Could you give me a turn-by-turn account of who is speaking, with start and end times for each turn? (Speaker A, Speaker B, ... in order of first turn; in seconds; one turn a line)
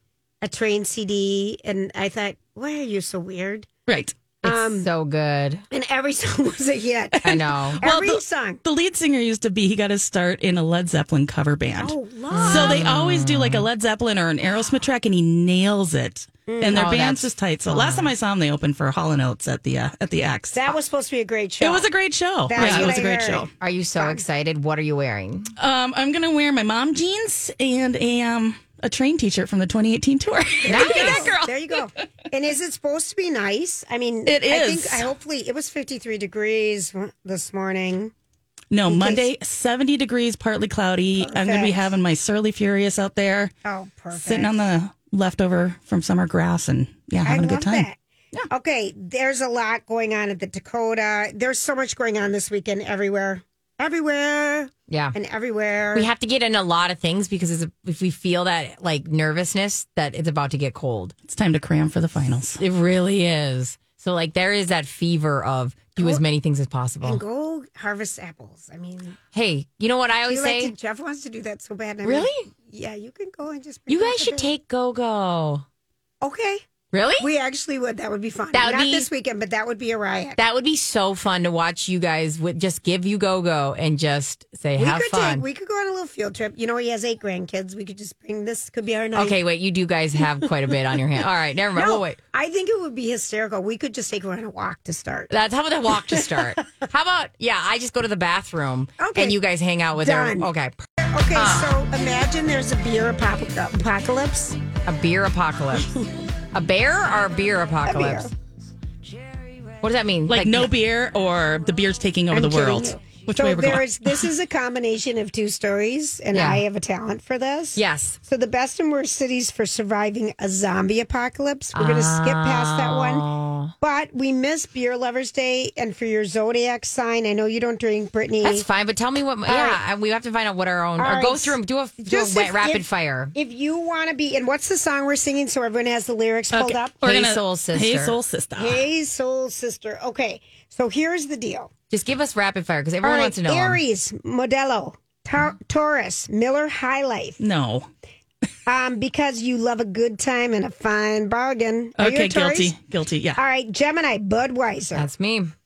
Speaker A: 0.4-3.7
Speaker B: 3.9-4.2
Speaker A: 4.4-4.9
Speaker C: 4.4-5.6
Speaker A: 5.7-8.6
Speaker C: 7.2-7.8
Speaker B: 7.8-20.7
Speaker A: 11.8-12.9
Speaker C: 12.3-13.7
Speaker A: 16.5-16.9
Speaker C: 16.7-18.1
Speaker A: 20.5-21.9
Speaker B: 21.6-23.5
Speaker A: 22.5-24.2
Speaker C: 22.6-22.9
Speaker C: 23.6-25.5
Speaker B: 25.6-31.4
Speaker A: 30.6-38.1
Speaker C: 30.7-31.5
Speaker B: 34.3-35.1
Speaker B: 38.7-43.5
Speaker A: 38.9-39.3
Speaker A: 41.2-41.9
Speaker A: 43.6-44.6
Speaker B: 44.1-48.5
Speaker A: 47.2-48.0
Speaker A: 48.5-56.1
Speaker C: 54.9-55.2
Speaker C: 55.9-61.1
Speaker B: 61.3-62.6
Speaker C: 62.6-67.2
Speaker A: 66.0-66.2
Speaker A: 67.0-69.2
Speaker C: 69.3-70.7
Speaker A: 70.3-74.5
Speaker C: 72.0-72.5
Speaker C: 73.9-75.7
Speaker A: 76.2-76.6
Speaker C: 76.9-77.3
Speaker A: 77.2-80.4
Speaker C: 78.5-79.1
Speaker C: 80.4-85.5
Speaker A: 84.8-89.4
Speaker C: 89.2-92.2
Speaker A: 91.7-95.3
Speaker C: 95.3-100.8
Speaker A: 96.1-96.4
Speaker A: 99.0-99.4
Speaker A: 99.9-104.6
Speaker C: 101.3-101.8
Speaker C: 104.8-106.0
Speaker C: 106.5-108.3
Speaker A: 107.8-108.3
Speaker C: 109.8-110.7
Speaker B: 110.3-114.2
Speaker A: 112.3-123.3
Speaker C: 116.3-116.6
Speaker C: 117.8-118.2
Speaker C: 121.8-123.7
Speaker A: 123.8-128.7
Speaker C: 128.4-133.3
Speaker A: 129.5-129.8
Speaker A: 131.0-137.0
Speaker B: 136.5-138.8
Speaker C: 137.0-138.2
Speaker A: 138.6-141.7
Speaker C: 141.9-143.8
Speaker A: 143.0-147.4
Speaker B: 147.4-147.9
Speaker A: 148.7-152.8
Speaker B: 152.0-153.4
Speaker A: 153.4-155.1
Speaker C: 154.9-155.5